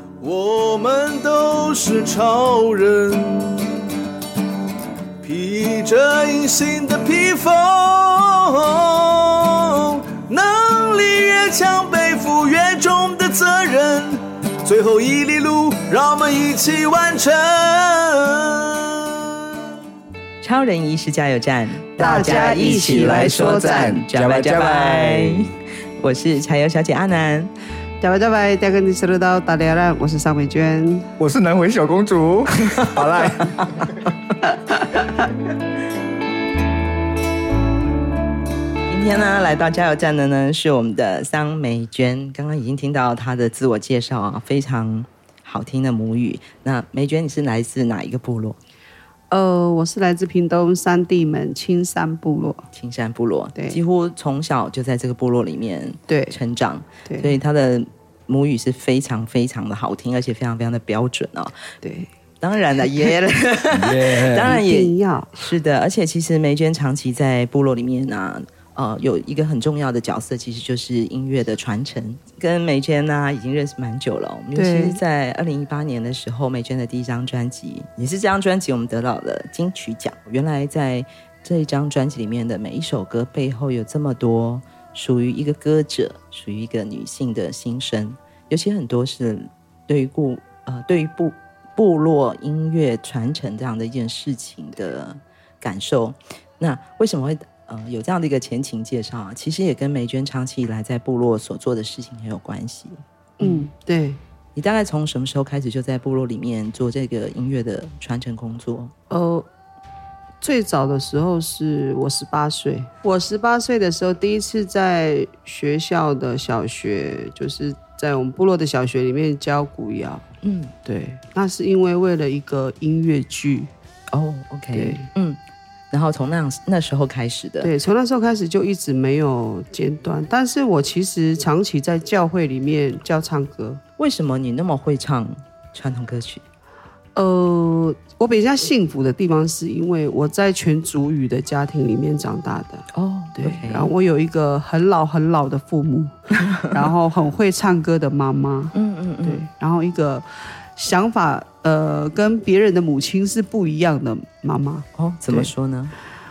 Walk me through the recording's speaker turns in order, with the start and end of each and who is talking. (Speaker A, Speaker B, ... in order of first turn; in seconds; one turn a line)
Speaker A: 0.2-3.7
Speaker A: 5.2-19.4
Speaker B: 20.4-27.5
Speaker C: 22.0-24.0
Speaker D: 22.5-25.4
Speaker C: 28.0-31.1
Speaker D: 31.2-33.5
Speaker C: 34.5-34.8
Speaker B: 38.9-48.6
Speaker C: 49.3-52.7
Speaker B: 52.7-61.7
Speaker C: 53.5-53.8
Speaker C: 56.1-56.4
Speaker C: 57.0-57.3
Speaker C: 61.8-62.1
Speaker B: 62.4-103.7
Speaker D: 63.7-64.5
Speaker C: 64.4-65.4
Speaker C: 74.5-75.0
Speaker C: 103.4-104.2
Speaker B: 104.5-108.9
Speaker C: 109.1-109.5
Speaker C: 110.4-120.2
Speaker B: 120.4-120.7
Speaker C: 120.8-123.7
Speaker B: 124.1-125.4
Speaker C: 124.7-125.1
Speaker B: 125.9-127.7
Speaker C: 127.6-133.8
Speaker B: 134.0-136.4
Speaker C: 137.2-155.5
Speaker B: 142.9-143.9
Speaker B: 146.5-146.8
Speaker B: 148.7-149.4
Speaker B: 154.9-155.9